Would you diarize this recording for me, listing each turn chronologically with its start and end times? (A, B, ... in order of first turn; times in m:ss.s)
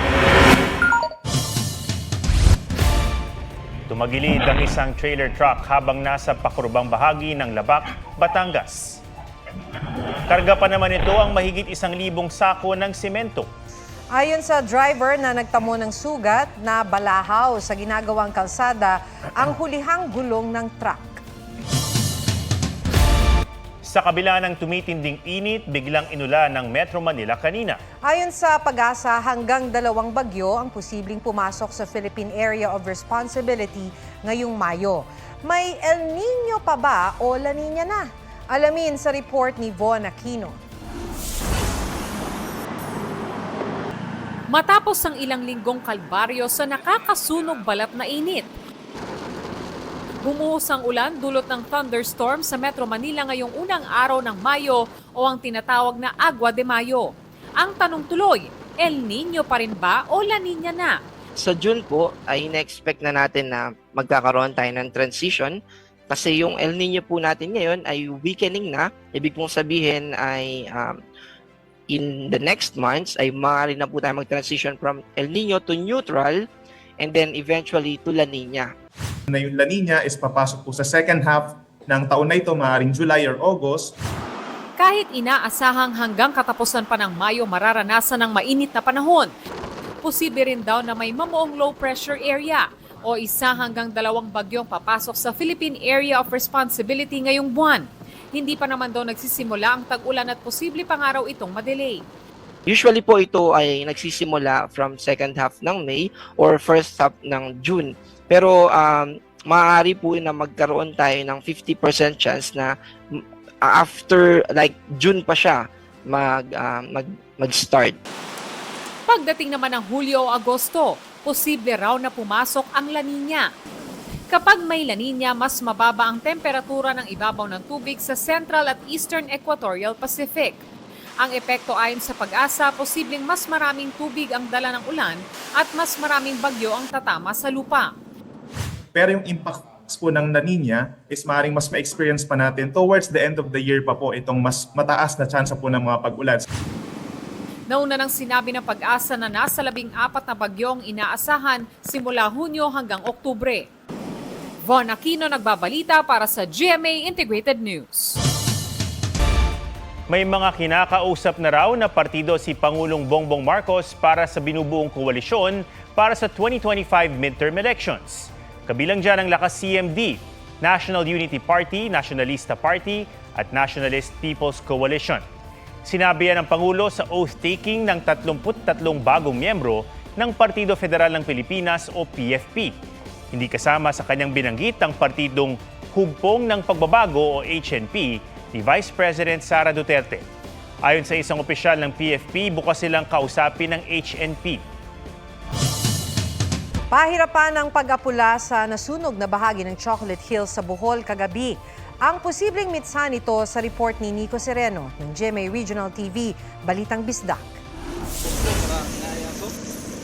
0:03.9-0:09.0 A
0:10.3-0:13.5 A
0:14.1-0:21.2 B
0:23.8-0:27.8 A
0:28.0-0:40.6 B
0:44.5-0:48.4 C
0:50.2-0:57.0 C
0:57.6-1:00.9 C
1:01.4-1:05.6 D
1:06.1-1:11.0 D
1:11.9-1:16.4 D
1:17.0-1:18.7 D
1:19.3-1:23.9 E
1:24.8-1:29.3 C
1:30.0-1:42.0 C
1:42.7-1:58.0 D
1:59.1-2:03.4 C
2:04.3-2:10.6 C
2:11.2-2:17.9 C
2:19.0-2:26.4 E
2:27.7-2:33.6 C
2:34.6-2:38.2 C
2:40.1-2:55.2 A
2:55.8-3:02.8 A
3:03.3-3:10.2 A
3:10.8-3:14.6 A
3:16.9-3:27.6 B